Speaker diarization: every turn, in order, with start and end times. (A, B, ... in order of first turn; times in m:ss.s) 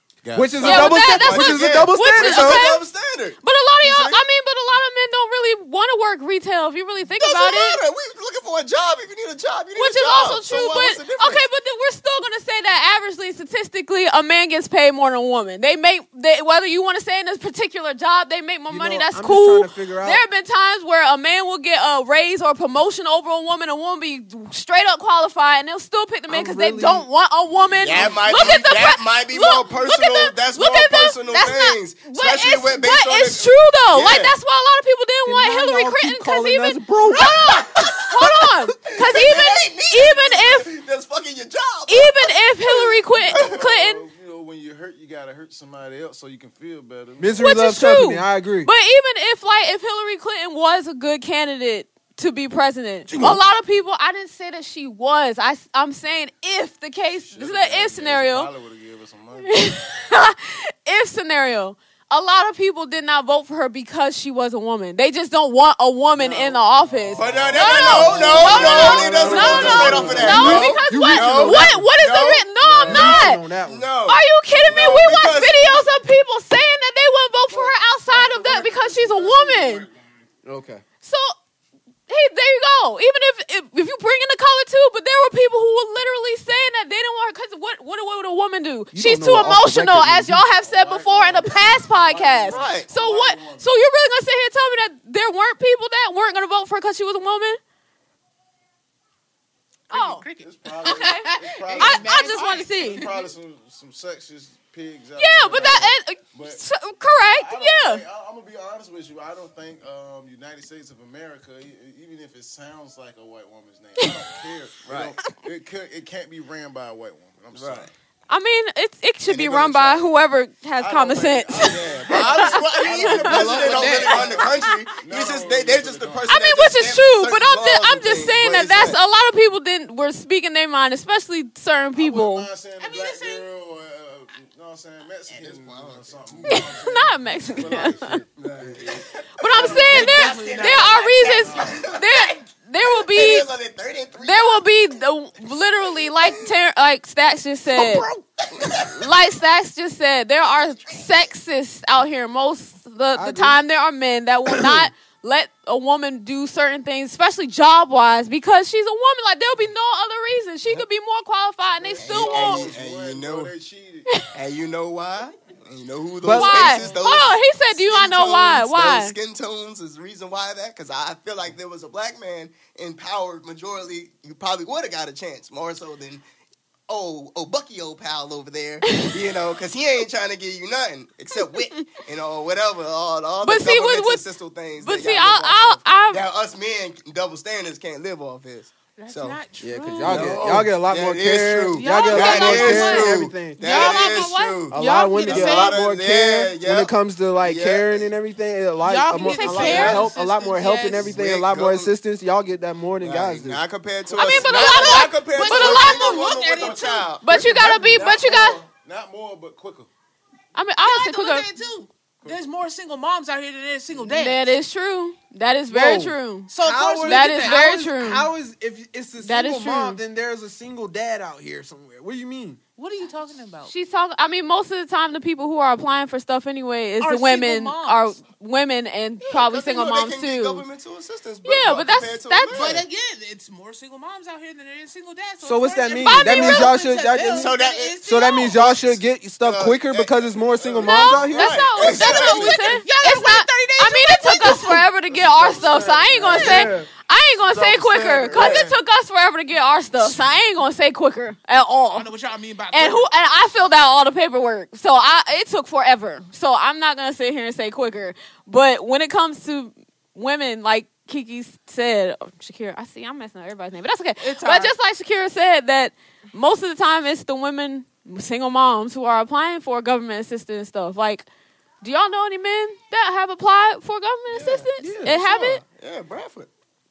0:00.2-0:00.7 A
0:00.3-0:02.8 B
0:00.6-0:04.2 C
0:00.6-0:02.8 D
0:03.4-0:07.8 D
0:07.1-0:11.4 C
0:09.8-0:40.7 D
0:18.7-0:20.2 B
0:26.3-0:27.1 B
0:27.8-0:34.3 C
0:35.2-0:37.9 B
0:37.2-0:38.2 C
0:38.8-0:43.6 C
0:41.9-0:44.0 D
0:43.1-0:47.6 A
0:47.2-0:48.7 B
0:47.4-0:58.5 D
0:53.1-0:53.4 B
0:57.2-0:59.6 A
0:59.3-1:13.4 D
1:06.8-1:10.5 A
1:07.1-1:15.9 C
1:08.1-1:11.8 B
1:12.8-1:13.9 B
1:14.0-1:19.9 D
1:17.5-1:17.7 C
1:18.1-1:20.3 A
1:20.4-1:20.8 B
1:21.0-1:21.3 D
1:22.1-1:37.6 D
1:28.9-1:30.4 B
1:30.6-1:33.7 A
1:32.5-1:32.9 C
1:39.9-1:43.1 E
1:39.9-1:40.2 D
1:40.4-1:46.6 A
1:40.9-1:43.1 D
1:45.2-1:48.0 D
1:47.3-1:57.9 A
1:54.8-1:55.2 C
1:57.5-1:57.9 C
1:58.3-2:03.7 D
1:59.2-2:00.0 C
2:00.8-2:02.4 A
2:01.6-2:09.0 C
2:02.2-2:04.3 E
2:03.0-2:06.3 A
2:06.2-2:12.5 D
2:11.9-2:19.0 A
2:12.8-2:13.4 E
2:15.3-2:16.6 C
2:16.5-2:18.2 D
2:18.4-2:24.7 C
2:19.4-2:23.5 D
2:19.6-2:20.0 A
2:19.6-2:21.2 E
2:21.2-2:21.8 A
2:24.2-2:28.1 D
2:27.7-2:28.2 B
2:28.6-2:29.0 C
2:28.9-2:42.7 D
2:33.2-2:33.6 B
2:34.6-2:34.9 B
2:41.8-2:44.3 A
2:42.0-2:43.5 C
2:44.3-2:56.2 C
2:46.2-2:46.8 B
2:46.3-2:49.2 D
2:46.7-2:47.0 A
2:56.9-3:09.4 C
3:03.4-3:04.2 D
3:04.8-3:06.2 D
3:09.0-3:10.6 E
3:09.6-3:13.6 B
3:10.0-3:18.1 C
3:11.8-3:15.7 E
3:12.0-3:14.6 D
3:14.7-3:23.6 B
3:18.8-3:21.1 E
3:19.2-3:20.0 D
3:19.4-3:20.1 C
3:20.9-3:21.9 C
3:23.0-3:27.3 C
3:24.1-3:26.2 D
3:24.1-3:27.1 E
3:27.2-3:28.6 D
3:27.3-3:28.1 B
3:27.6-3:29.9 A
3:30.5-3:31.5 D
3:30.8-3:34.5 E
3:34.0-3:36.5 D
3:35.7-3:42.6 B
3:36.5-3:37.7 E
3:37.0-3:38.3 D
3:39.2-3:40.0 D
3:42.8-3:43.7 E
3:43.7-3:50.6 D
3:47.0-3:48.2 E
3:49.2-3:52.8 C
3:51.4-3:52.8 D
3:52.5-3:58.6 E
3:55.4-4:01.9 B
3:55.9-3:56.7 D
3:57.3-4:02.8 C
4:00.8-4:12.1 D
4:02.2-4:04.9 E
4:05.1-4:06.7 A
4:06.3-4:06.9 B
4:07.5-4:08.6 C
4:07.8-4:08.8 A
4:11.9-4:13.1 E
4:12.7-4:31.3 D
4:24.2-4:24.7 E
4:31.8-4:35.6 D
4:34.3-4:36.5 C
4:34.8-4:35.2 B